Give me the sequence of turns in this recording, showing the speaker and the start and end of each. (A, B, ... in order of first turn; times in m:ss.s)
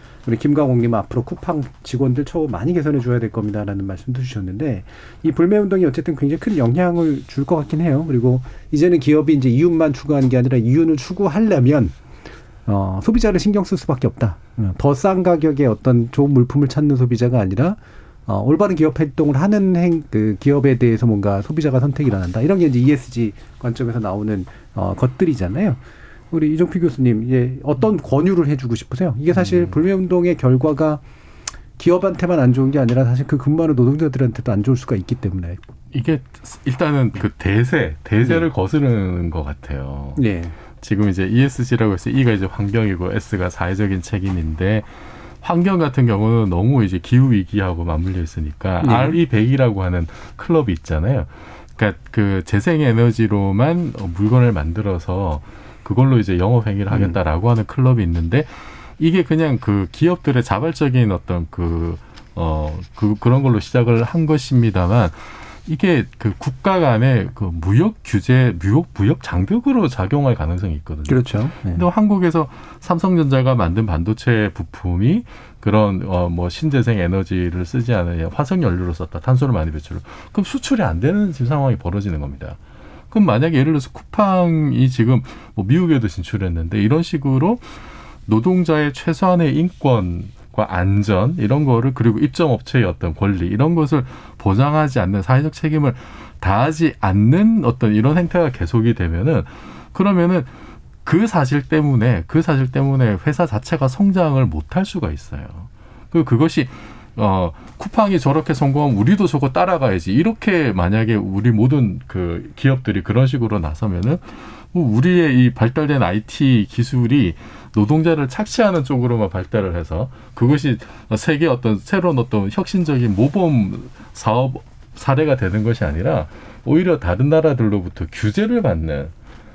0:00.2-0:12.0 A
0:12.7-0:31.0 A
0:29.3-0:29.8 B
0:31.8-0:35.6 A
0:35.9-0:40.2 B
0:38.2-0:38.5 A
0:40.2-0:40.6 A
0:40.8-0:44.9 B
0:45.4-1:22.6 B
0:48.8-0:49.2 A
0:56.9-0:57.2 A
1:11.1-1:11.9 A
1:23.1-1:40.5 B
1:41.0-2:09.1 B